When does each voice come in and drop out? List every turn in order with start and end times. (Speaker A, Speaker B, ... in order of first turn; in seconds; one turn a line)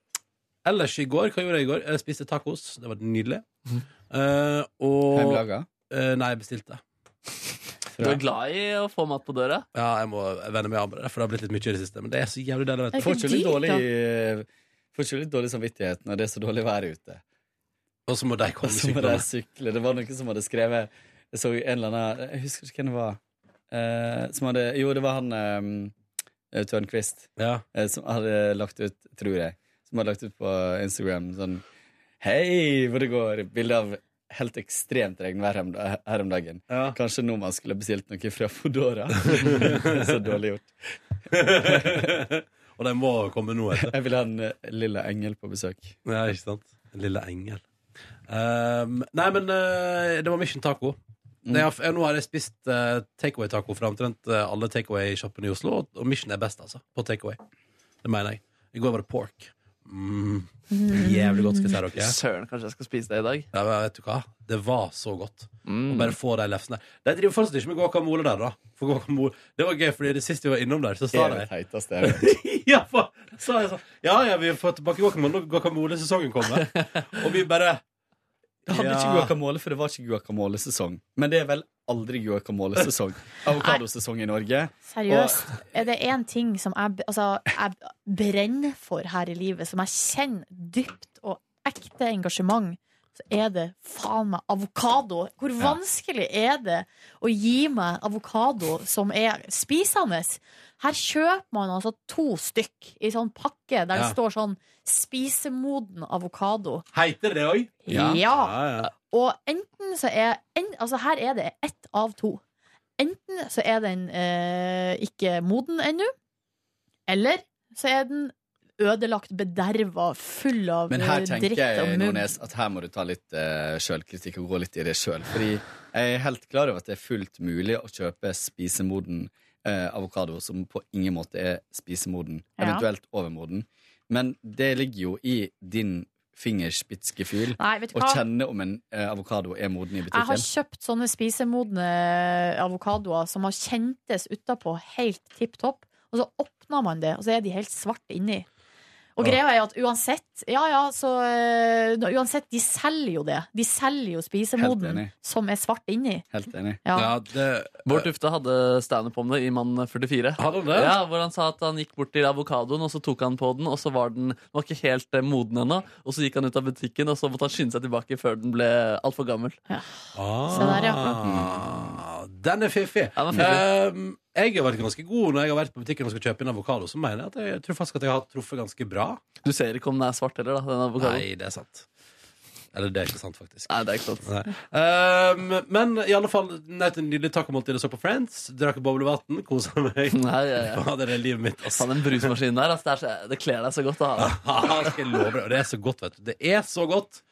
Speaker A: 0.6-3.5
Speaker A: 4.1-6.8
Speaker B: 5.1-5.7
Speaker B: 7.9-8.2
Speaker C: 8.0-9.7
Speaker A: 9.7-13.2
Speaker D: 12.9-13.8
Speaker B: 12.9-17.2
Speaker A: 18.1-19.2
Speaker B: 18.6-23.2
Speaker B: 23.7-25.9
Speaker B: 26.5-31.6
Speaker A: 27.4-27.6
Speaker B: 32.2-40.7
Speaker A: 36.7-37.0
Speaker A: 39.3-40.1
Speaker A: 41.3-43.9
Speaker B: 41.3-42.2
Speaker B: 43.7-46.0
Speaker A: 46.0-47.6
Speaker A: 48.3-51.0
Speaker A: 51.5-57.4
Speaker A: 58.0-62.1
Speaker D: 60.7-61.7
Speaker C: 61.9-63.5
Speaker A: 63.5-71.5
Speaker C: 65.7-66.1
Speaker B: 71.1-72.2
Speaker A: 72.0-77.8
Speaker A: 78.7-79.3
Speaker B: 78.7-85.4
Speaker D: 84.8-106.8
Speaker A: 106.9-108.9
Speaker D: 107.8-112.4
Speaker D: 113.0-116.1
Speaker D: 117.1-122.3
Speaker B: 120.9-140.5
Speaker D: 132.6-132.8
Speaker D: 137.6-138.2
Speaker D: 140.1-148.4
Speaker D: 149.2-156.2
Speaker B: 154.6-155.1
Speaker B: 156.3-156.8
Speaker D: 156.8-157.1
Speaker A: 156.9-158.1
Speaker C: 157.8-169.6
Speaker A: 160.4-161.0
Speaker D: 169.7-171.1
Speaker A: 170.1-179.2
Speaker B: 171.2-171.8
Speaker C: 173.2-173.6
Speaker C: 179.4-181.2
Speaker A: 181.0-181.8
Speaker A: 182.7-183.7
Speaker C: 183.7-184.3
Speaker A: 184.2-192.3
Speaker C: 190.1-190.8
Speaker C: 191.7-194.9
Speaker A: 194.2-197.2